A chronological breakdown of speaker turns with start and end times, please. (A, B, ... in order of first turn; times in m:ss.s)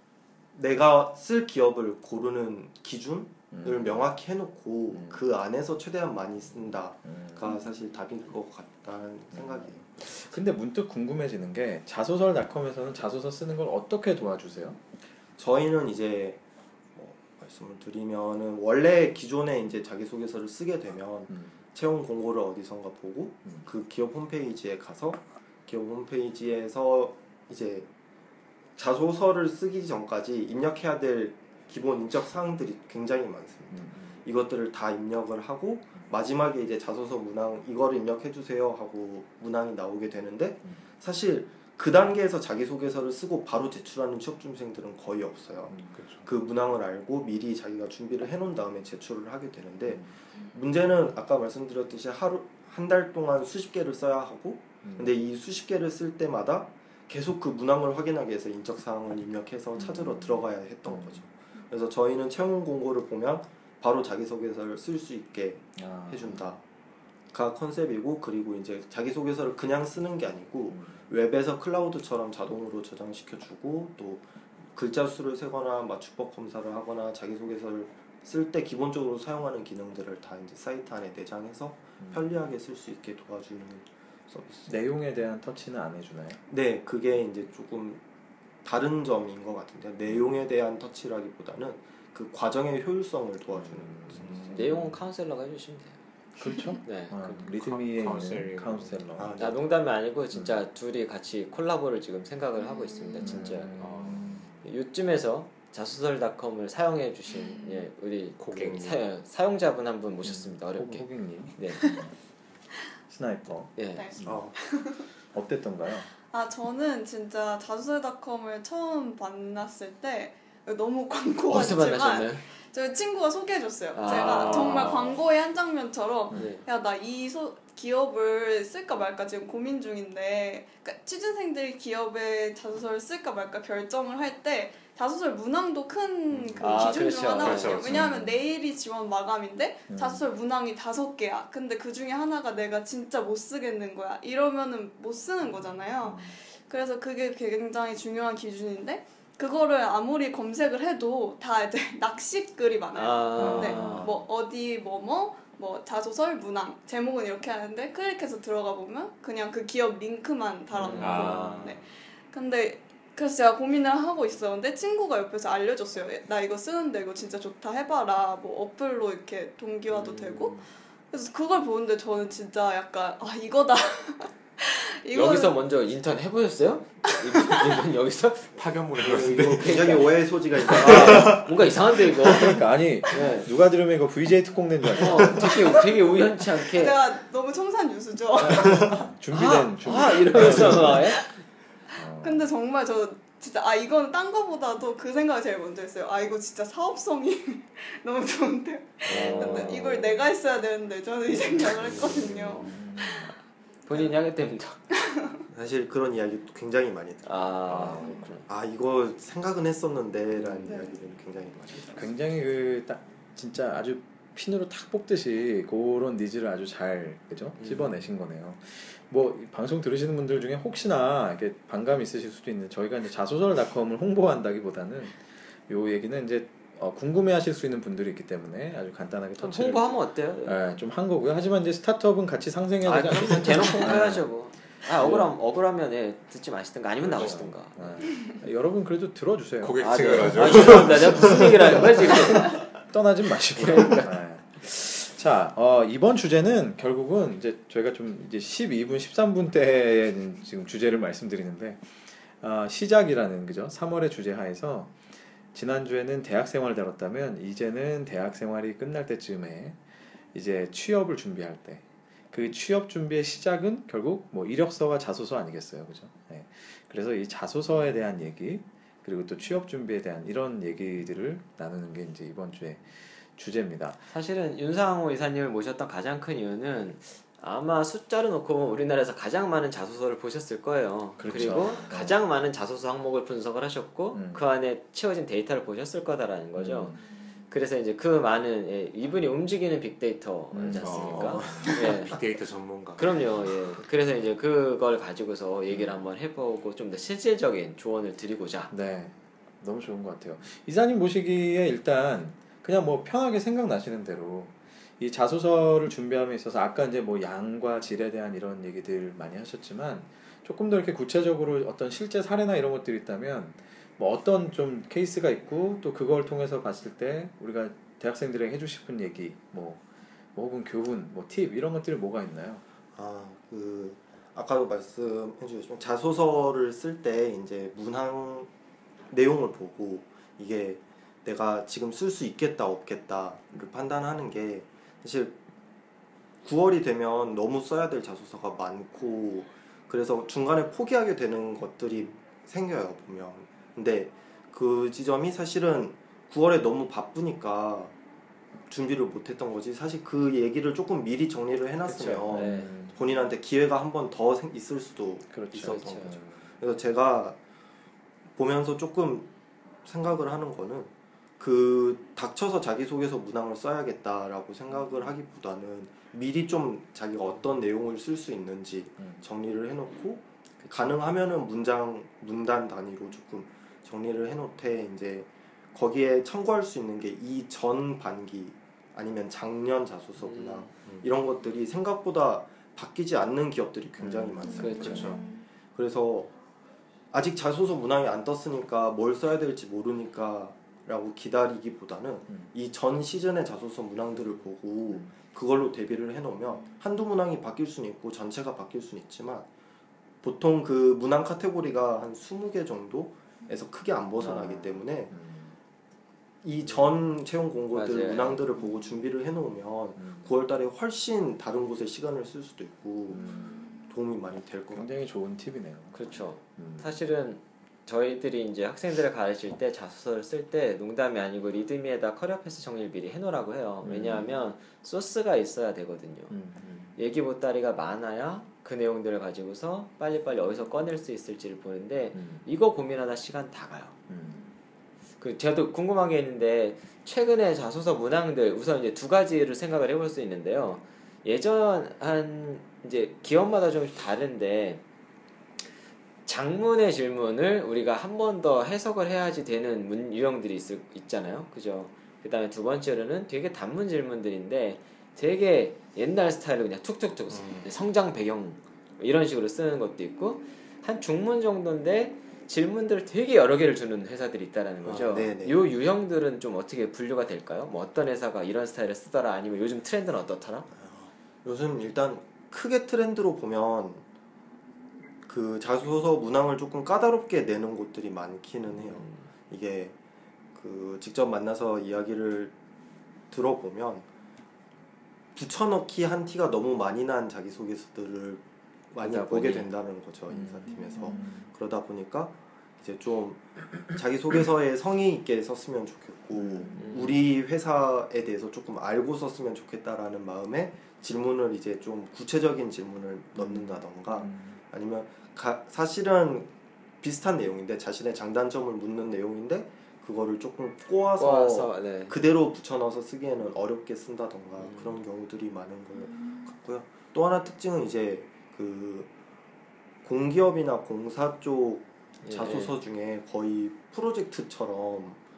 0:00.5-0:10.4 A
0:03.5-0:04.1 B
0:04.9-0:05.2 B
0:07.0-0:07.5 B
0:09.3-0:14.8 B
0:15.4-0:16.4 A
0:17.0-0:27.9 A
0:21.3-0:21.6 B
0:28.8-1:06.6 A
0:33.7-0:34.2 B
0:45.7-0:46.1 B
0:49.9-0:50.1 B
0:54.8-0:55.2 B
0:59.8-1:01.3 B
1:05.8-1:06.5 B
1:07.3-1:24.8 A
1:10.7-1:11.0 B
1:22.0-1:22.3 B
1:24.7-1:26.4 B
1:26.5-1:28.0 A
1:28.6-1:34.5 A
1:33.5-1:35.0 B
1:34.5-1:36.0 C
1:36.4-1:39.4 B
1:36.8-1:37.4 C
1:37.5-1:39.0 D
1:39.2-1:39.6 A
1:39.4-1:51.9 C
1:40.3-1:40.6 B
1:42.7-1:43.3 E
1:43.2-1:44.5 B
1:43.8-1:44.2 D
1:47.4-1:47.9 E
1:48.4-1:49.0 D
1:50.2-1:52.1 B
1:51.8-1:52.1 E
1:53.1-1:54.6 B
1:53.8-1:54.1 C
1:54.0-1:55.1 E
1:54.3-1:54.5 A
1:55.3-1:56.1 B
1:56.3-2:55.6 E
2:01.5-2:02.4 C
2:03.9-2:05.0 C
2:04.0-2:05.2 D
2:06.3-2:06.6 C
2:16.3-2:16.8 B
2:16.6-2:17.8 C
2:17.4-2:18.1 D
2:17.8-2:18.4 B
2:19.9-2:20.2 B
2:26.0-2:26.4 B
2:33.0-2:34.1 C
2:33.4-2:34.2 B
2:40.8-2:41.8 C
2:40.9-2:41.8 D
2:49.9-2:50.6 C
2:55.1-2:58.5 C
2:57.1-2:57.8 E
2:58.6-3:00.0 D
2:59.0-3:01.5 A
2:59.6-3:03.5 C
3:00.6-3:01.5 D
3:02.3-3:05.5 B
3:05.0-3:07.0 C
3:06.7-3:09.0 E
3:08.4-3:08.7 C
3:08.8-3:11.2 B
3:09.3-3:11.3 C
3:10.4-3:11.3 E
3:12.0-3:12.5 B
3:12.2-3:23.3 E
3:19.1-3:20.0 C
3:19.1-3:19.8 D
3:19.4-3:20.2 B
3:22.1-3:23.3 B
3:23.9-3:24.8 C
3:24.9-3:25.5 E
3:25.5-3:32.0 A
3:27.2-3:28.4 C
3:27.7-3:28.4 B
3:31.9-3:49.9 B
3:37.6-3:38.0 C
3:49.4-3:50.6 C
3:50.4-3:54.3 B
3:52.8-3:58.1 C
3:54.9-3:55.3 B
3:57.0-4:15.0 B
3:59.6-4:02.2 D
3:59.8-4:02.7 C
4:03.6-4:04.2 C
4:15.5-4:19.8 B
4:20.3-4:34.0 B
4:34.1-4:47.0 C
4:41.2-4:42.2 B
4:44.1-4:44.4 B
4:46.6-4:47.0 B
4:47.5-4:52.2 C
4:50.5-4:51.8 B
4:50.8-4:53.2 D
4:53.0-4:58.7 C
4:55.7-4:56.0 B
4:58.7-5:19.8 B
5:20.4-5:22.6 B
5:22.9-5:28.5 A
5:29.1-5:35.4 A
5:36.4-5:48.0 A
5:48.7-5:57.4 A
5:51.9-5:52.7 C
5:52.3-5:53.0 B
5:55.3-5:56.4 B
5:55.6-5:56.2 C
5:58.4-5:59.3 A
5:59.8-6:26.3 A
6:10.6-6:11.0 C
6:20.2-6:20.7 C
6:24.0-6:25.2 B
6:24.4-6:25.5 E
6:24.6-6:25.2 C
6:24.8-6:25.2 D
6:27.1-6:39.5 A
6:40.2-6:45.1 A
6:44.2-6:45.6 B
6:46.4-6:54.9 A
6:47.7-6:48.4 C
6:50.0-6:50.4 B
6:53.1-6:53.7 B
6:54.7-6:57.0 B
6:55.9-7:06.3 C
7:03.8-7:04.4 B
7:06.3-7:06.9 B
7:07.0-7:14.0 C
7:12.1-7:12.4 B
7:14.1-7:14.4 B
7:15.2-7:24.8 C
7:26.3-7:50.7 C
7:37.3-7:37.7 D
7:44.8-7:45.6 A
7:50.7-7:54.0 A
7:55.3-8:00.0 A
8:00.6-8:02.6 A
8:03.3-8:04.1 A
8:05.4-8:39.1 A
8:09.0-8:09.7 C
8:10.3-8:11.5 B
8:10.7-8:11.2 E
8:16.4-8:17.0 B
8:16.8-8:17.2 C
8:23.4-8:24.6 B
8:31.2-8:32.1 C
8:34.6-8:35.0 C
8:36.1-8:36.4 E
8:40.0-8:45.2 A
8:42.2-8:42.8 C